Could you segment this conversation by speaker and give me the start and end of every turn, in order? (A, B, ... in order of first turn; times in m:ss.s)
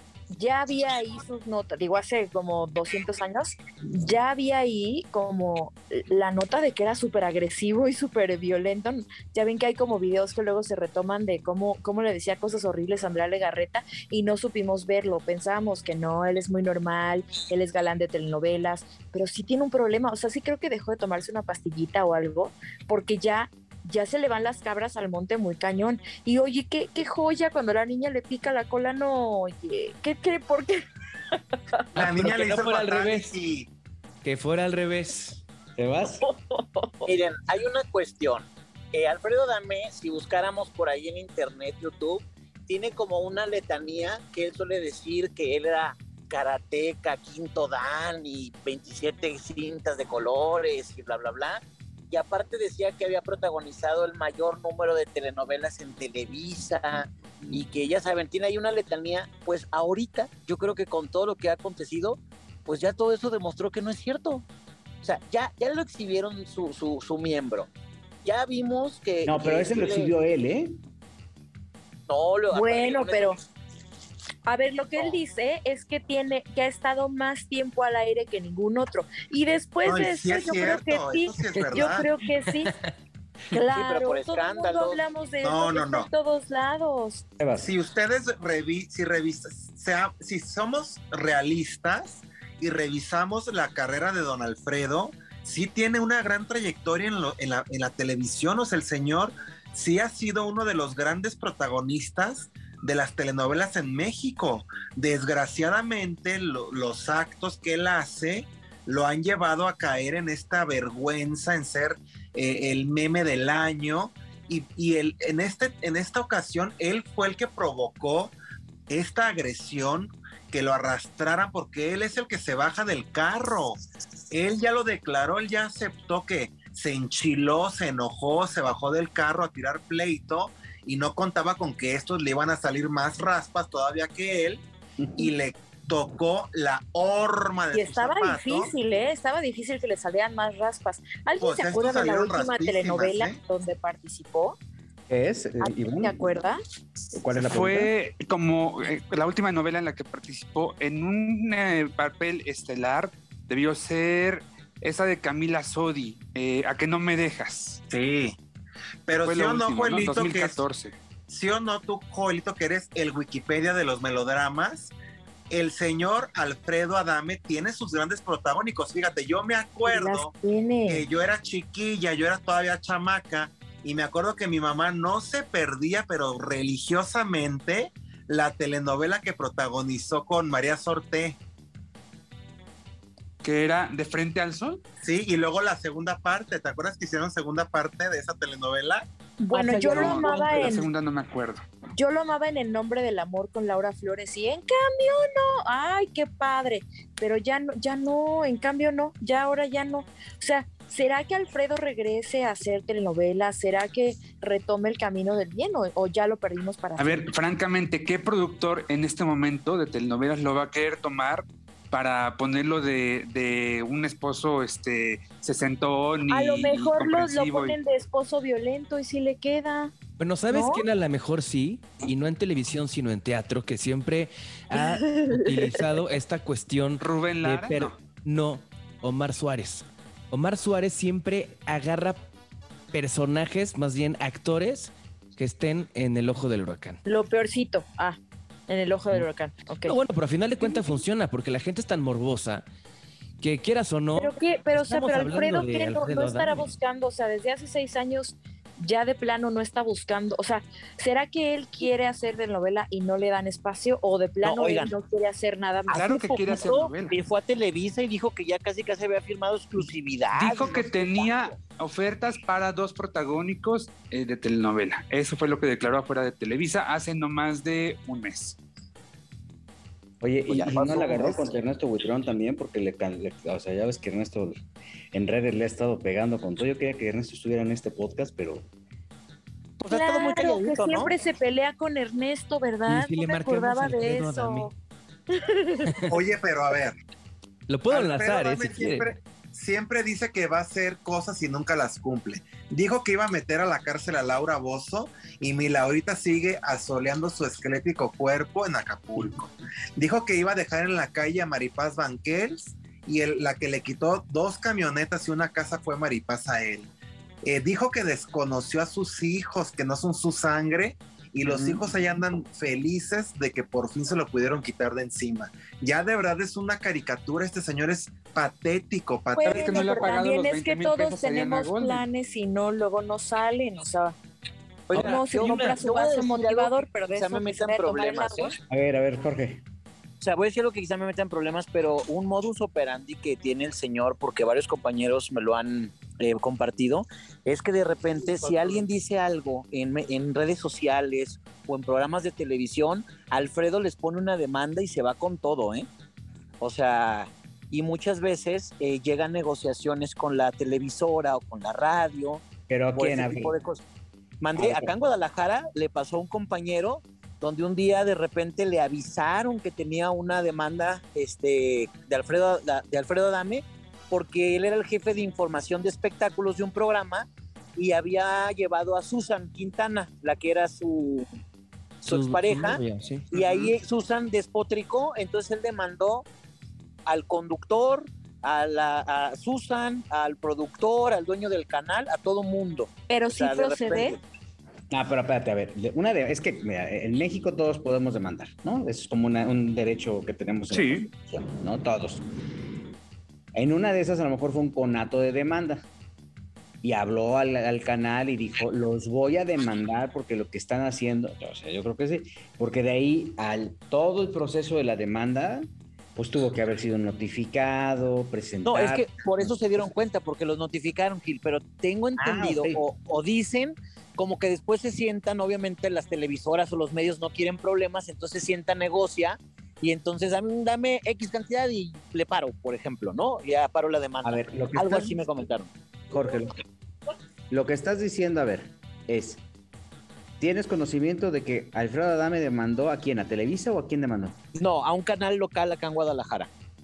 0:00.3-0:31.8 A
0:32.0-0:33.3 B
0:32.0-0:33.7 C
0:34.2-0:35.4 B
0:35.8-0:36.2 D
0:36.2-0:37.1 A
0:37.0-1:04.5 E
1:05.0-1:07.7 E
1:08.2-1:10.1 E
1:09.2-1:10.8 D
1:12.1-1:13.4 E
1:12.5-1:13.4 A
1:14.5-1:22.7 A
1:19.8-1:22.1 C
1:23.5-1:27.2 A
1:23.6-1:25.0 E
1:25.4-1:26.1 C
1:27.4-1:27.7 D
1:27.6-1:58.4 C
1:58.9-2:03.8 C
2:04.3-2:14.6 C
2:15.0-2:15.3 D
2:15.2-2:18.7 C
2:17.7-2:24.6 A
2:21.4-2:23.4 C
2:25.1-2:26.4 D
2:25.6-2:26.6 A
2:27.1-2:27.9 D
2:27.4-2:37.8 F
2:37.9-2:38.4 C
2:39.1-2:40.6 C
2:39.1-2:40.9 F
2:41.3-2:44.9 C
2:45.5-2:50.3 C
2:49.8-2:51.0 A
2:50.9-3:01.4 C
3:03.4-3:04.8 F
3:05.0-3:09.1 C
3:09.4-3:10.9 A
3:09.5-3:11.6 F
3:12.0-3:27.3 A
3:27.0-3:37.8 F
3:36.3-3:39.9 A
3:40.2-3:52.2 B
3:40.5-3:40.8 A
3:44.8-3:45.8 A
3:47.0-3:48.0 F
3:52.9-3:57.0 B
3:57.1-4:00.0 A
3:59.8-4:02.7 B
4:00.6-4:01.0 A
4:03.4-4:06.7 B
4:04.2-4:16.4 A
4:14.4-4:14.9 E
4:15.9-4:21.6 E
4:15.9-4:17.2 F
4:20.3-4:28.6 F
4:30.2-4:38.7 D
4:30.5-4:31.5 E
4:39.8-4:41.1 E
4:39.9-4:44.7 A
4:42.9-4:44.7 B
4:45.3-4:45.9 A
4:46.1-4:47.0 C
4:47.7-4:49.1 B
4:47.9-5:06.9 C
5:07.5-5:20.1 C
5:11.5-5:11.8 F
5:19.4-5:24.2 A
5:19.4-5:22.0 F
5:24.9-5:28.6 E
5:24.9-5:28.6 A
5:28.7-5:29.6 D
5:30.2-5:45.9 E
5:46.6-5:52.4 E
5:52.7-5:53.5 D
5:53.0-5:53.8 E
5:54.4-6:11.3 E
5:54.6-5:54.9 D
6:12.0-6:13.3 B
6:12.0-6:16.3 E
6:17.1-6:24.2 E
6:23.1-6:24.2 A
6:24.9-6:32.2 D
6:30.7-6:31.1 F
6:33.5-6:35.8 D
6:36.8-6:49.6 D
6:48.7-7:05.7 E
6:52.2-6:52.8 D
7:04.2-7:05.2 D
7:06.1-7:06.6 D
7:07.5-7:09.4 D
7:10.4-7:14.4 D
7:14.6-7:16.5 E